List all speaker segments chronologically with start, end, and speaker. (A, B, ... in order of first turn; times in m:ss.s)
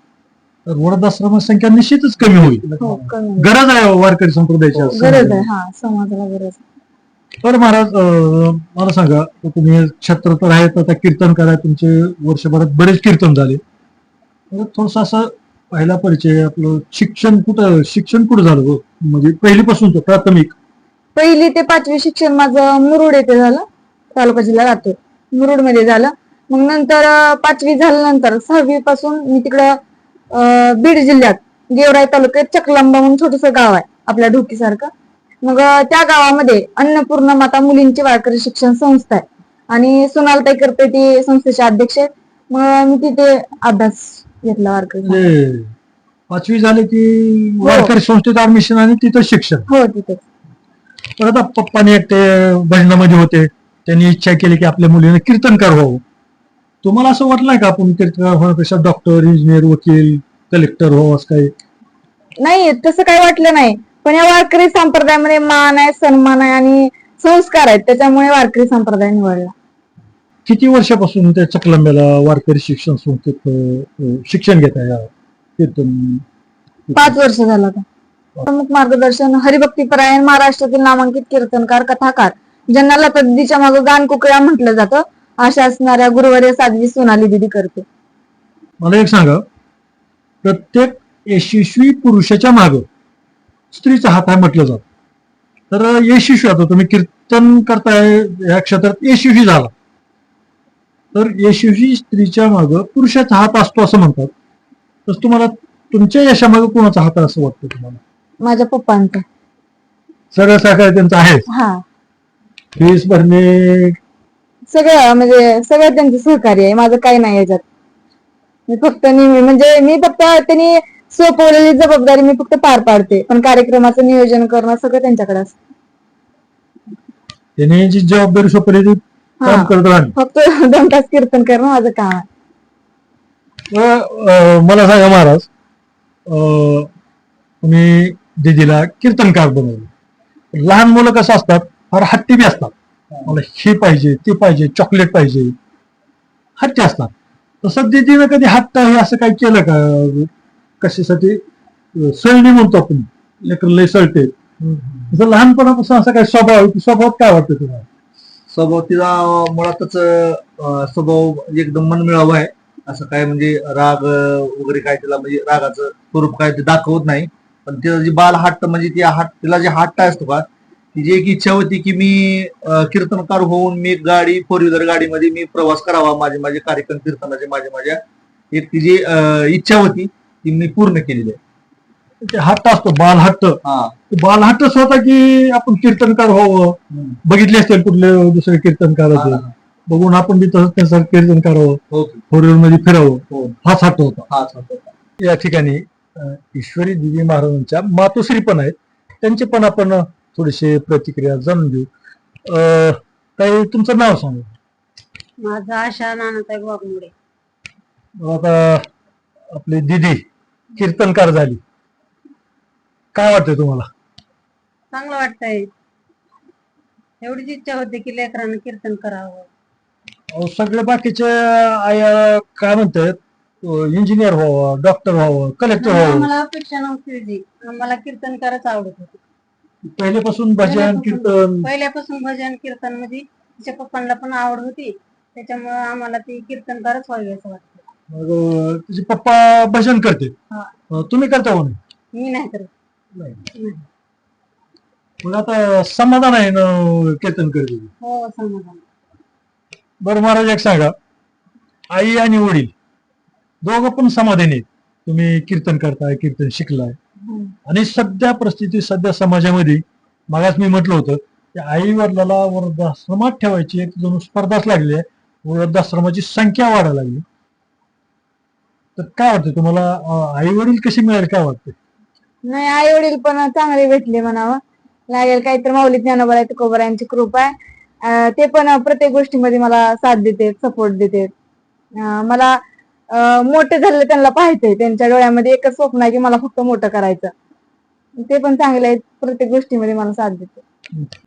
0:00.6-0:02.6 A
0:02.2-0:03.1 B
0:02.8-0:03.5 C
0:03.4-0:05.5 A
0:04.7-0:05.2 B
0:04.9-0:06.6 C
0:07.4-0:13.6 A
0:14.5-0:20.5 A
0:21.1-0:29.8 C
0:30.3-0:34.9 C
0:35.4-0:45.3 C
0:45.0-0:45.7 A
0:46.3-0:49.7 A
0:47.6-0:47.9 C
0:49.7-0:50.2 C
0:51.2-0:56.0 A
0:56.8-1:01.5 A
1:02.4-1:09.5 C
1:10.4-1:16.2 A
1:16.9-1:17.2 A
1:16.9-1:17.8 C
1:18.5-1:27.8 C
1:28.8-1:29.4 A
1:30.4-1:32.9 A
1:33.7-1:34.8 A
1:35.7-1:39.7 A
1:41.1-1:44.3 A
1:45.0-1:48.0 A
1:48.4-1:49.2 C
1:50.3-1:51.4 A
1:51.5-1:51.8 C
1:52.8-1:54.0 A
1:54.7-1:57.6 C
1:58.7-2:05.6 C
2:07.6-2:10.1 A
2:09.4-2:12.2 C
2:13.7-2:15.5 A
2:16.3-2:16.9 A
2:17.6-2:19.9 A
2:20.5-2:22.7 A
2:23.3-2:25.5 A
2:26.6-2:27.1 A
2:27.6-2:31.4 A
2:31.9-2:34.3 A
2:34.6-2:35.1 B
2:35.1-2:37.9 A
2:38.5-2:58.0 B
2:58.5-3:01.4 B
3:02.2-3:03.6 A
3:03.6-3:03.9 B
3:04.1-3:14.3 A
3:09.1-3:09.5 B
3:11.9-3:12.2 B
3:13.3-3:13.6 B
3:14.3-3:14.9 B
3:15.2-3:21.9 A
3:22.4-3:24.5 A
3:25.4-3:27.1 D
3:28.2-3:28.8 A
3:29.5-3:30.2 A
3:30.8-3:31.6 A
3:33.1-3:33.9 A
3:34.9-3:35.7 D
3:37.2-3:39.5 D
3:40.3-3:46.3 A
3:45.8-3:49.2 D
3:49.8-3:51.7 A
3:50.6-3:57.8 D
3:58.1-4:00.3 A
4:00.9-4:01.8 A
4:02.1-4:02.7 D
4:03.1-4:03.4 A
4:03.5-4:03.8 D
4:05.2-4:07.9 A
4:08.0-4:08.8 D
4:10.0-4:10.9 A
4:11.9-4:12.7 A
4:13.6-4:17.0 A
4:17.6-4:27.2 A
4:29.0-4:31.8 A
4:32.4-4:37.5 C
4:38.0-4:41.3 C
4:42.0-4:42.6 C
4:43.1-4:47.3 C
4:48.2-4:50.6 C